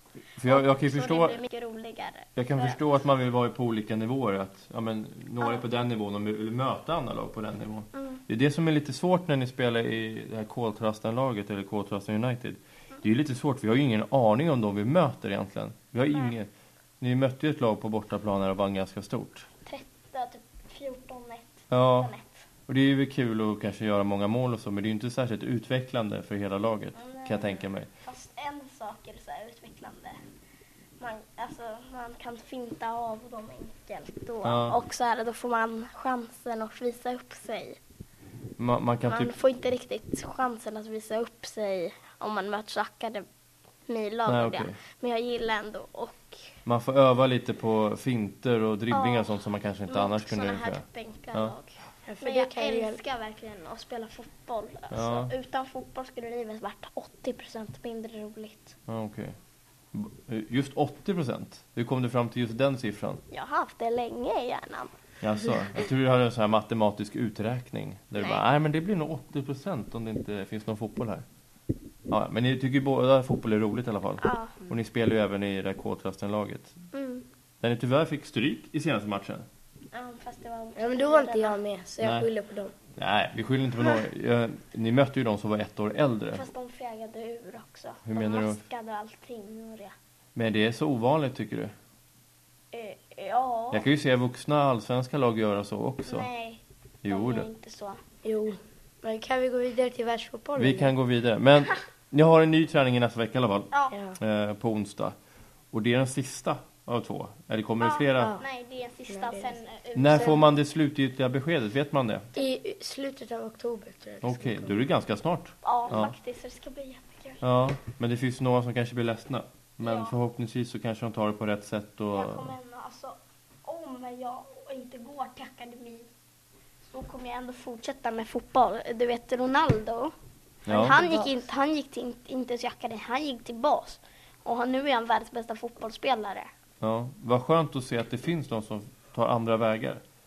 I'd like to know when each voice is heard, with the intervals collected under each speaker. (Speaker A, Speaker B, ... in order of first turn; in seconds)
Speaker A: 0.4-1.4, 2.4-19.5, 21.7-22.1, 22.7-27.9, 34.4-34.8, 38.6-39.3, 44.3-44.8, 46.6-51.5, 54.9-55.3, 58.9-59.4, 59.9-63.2, 65.2-71.2, 72.1-76.8, 77.6-79.5, 82.0-82.3, 83.0-86.5, 88.1-88.6, 90.3-91.7, 93.7-96.3, 97.0-97.5, 100.6-105.2, 105.7-108.3, 110.0-112.3, 114.2-116.1, 117.4-122.5, 130.7-131.0, 136.8-140.0
Speaker B: 0.5-2.8, 5.4-5.7, 7.9-8.2, 19.6-22.5, 26.9-30.2, 31.0-37.8, 39.1-43.3, 43.9-46.4, 48.9-49.3, 49.9-58.8, 63.3-64.9, 74.2-74.6, 76.9-77.2, 79.9-81.6, 86.3-89.9, 92.7-93.8, 96.0-98.0, 107.8-110.5, 115.6-117.4, 119.8-120.2, 122.1-126.1, 126.8-130.1, 130.7-136.5
Speaker C: 52.1-53.0, 80.8-82.7, 98.2-100.9, 103.9-104.2, 109.1-109.6, 112.4-114.8, 130.7-131.3